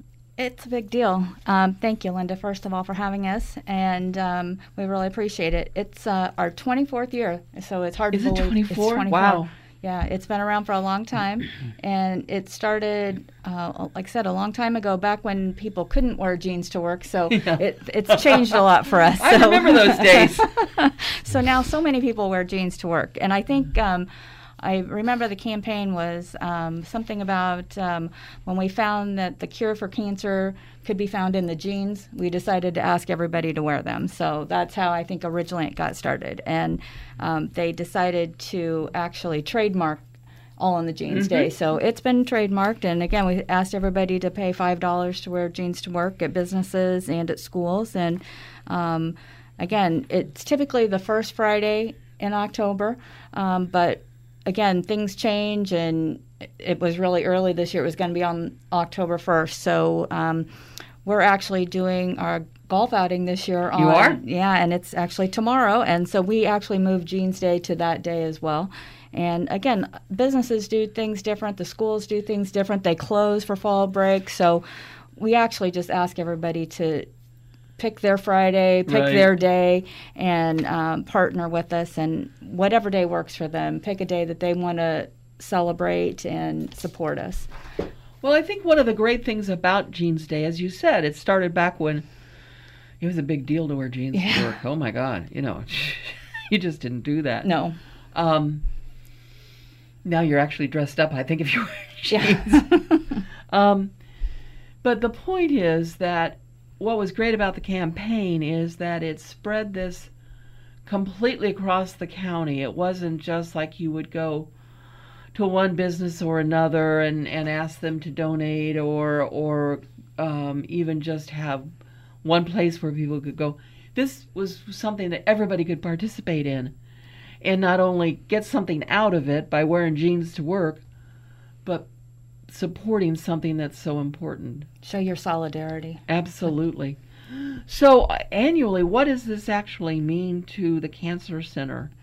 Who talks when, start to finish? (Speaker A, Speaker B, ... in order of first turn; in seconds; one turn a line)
Speaker A: 0.4-24.1
Speaker B: 8.1-9.5
Speaker B: 17.3-18.4
Speaker B: 19.2-20.5
Speaker A: 24.6-40.0
Speaker A: 40.6-60.5
Speaker B: 41.1-41.5
Speaker A: 61.0-74.6
Speaker B: 63.8-64.2
Speaker A: 75.2-77.1
Speaker A: 77.8-87.5
Speaker B: 78.9-79.3
Speaker B: 88.2-92.0
Speaker B: 93.0-97.5
Speaker A: 94.1-94.5
Speaker A: 97.4-97.8
Speaker B: 98.1-98.6
Speaker B: 100.0-102.7
Speaker A: 102.1-103.0
Speaker B: 103.5-103.9
Speaker B: 104.8-110.1
Speaker B: 110.9-114.5
Speaker B: 115.3-121.7
Speaker B: 122.2-126.7
Speaker B: 127.4-130.8
Speaker B: 132.5-134.7
Speaker A: 134.8-136.0
Speaker B: 136.1-141.9